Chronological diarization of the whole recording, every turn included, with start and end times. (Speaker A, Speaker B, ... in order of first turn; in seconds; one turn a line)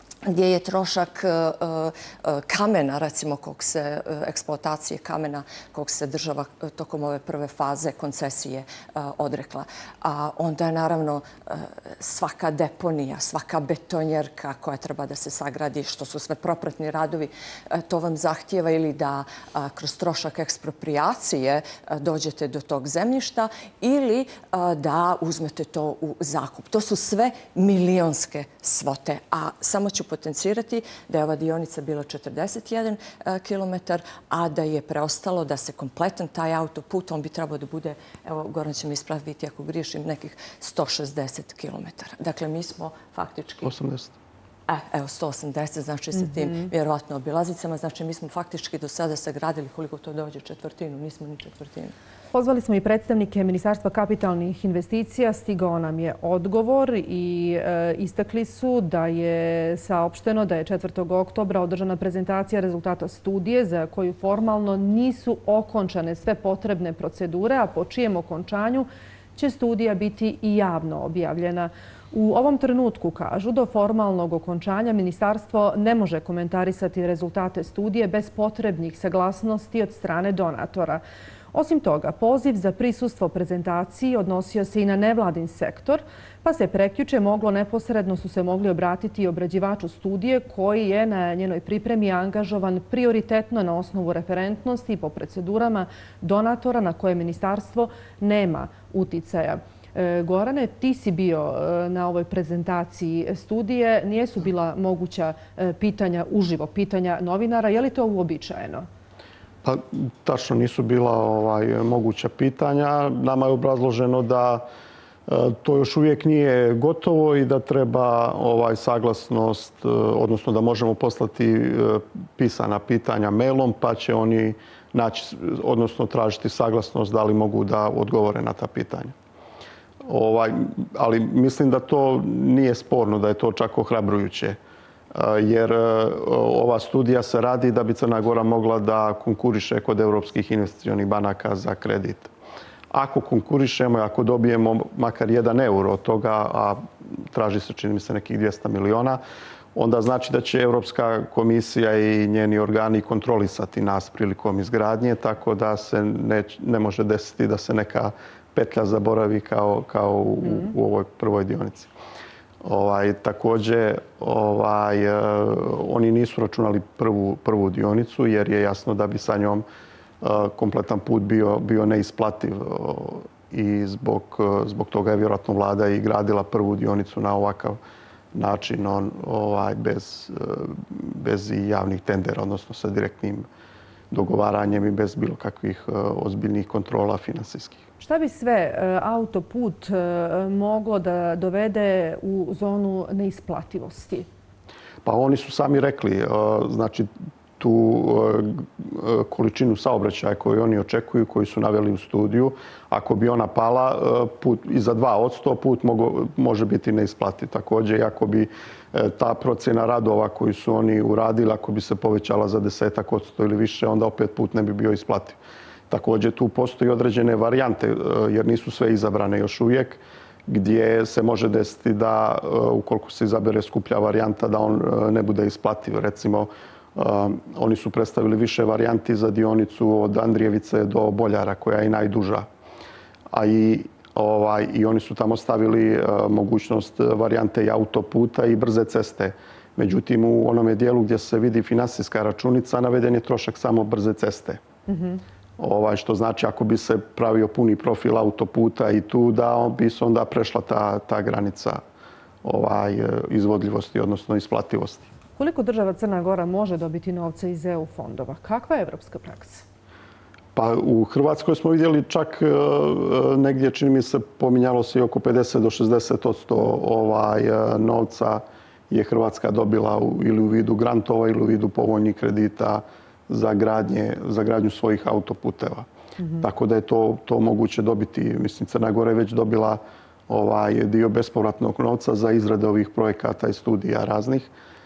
Speaker A: 0.2-43.7
Speaker B: 43.6-44.1
Speaker A: 44.7-51.9
Speaker C: 52.3-81.0
Speaker C: 81.5-108.8
Speaker B: 109.6-114.6
Speaker B: 115.3-129.1
Speaker B: 130.0-134.6
Speaker B: 135.1-142.3
Speaker B: 142.9-149.2
Speaker B: 149.7-161.9
Speaker B: 162.6-169.6
Speaker B: 170.2-177.8
Speaker B: 178.3-183.5
Speaker B: 184.1-187.8
Speaker C: 188.0-194.2
Speaker B: 195.0-215.4
Speaker B: 215.9-232.5
Speaker B: 233.3-244.6
Speaker C: 244.9-245.2
Speaker B: 245.6-251.8
Speaker B: 252.4-255.1
Speaker C: 255.4-259.6
Speaker B: 260.6-275.9
Speaker B: 276.4-284.5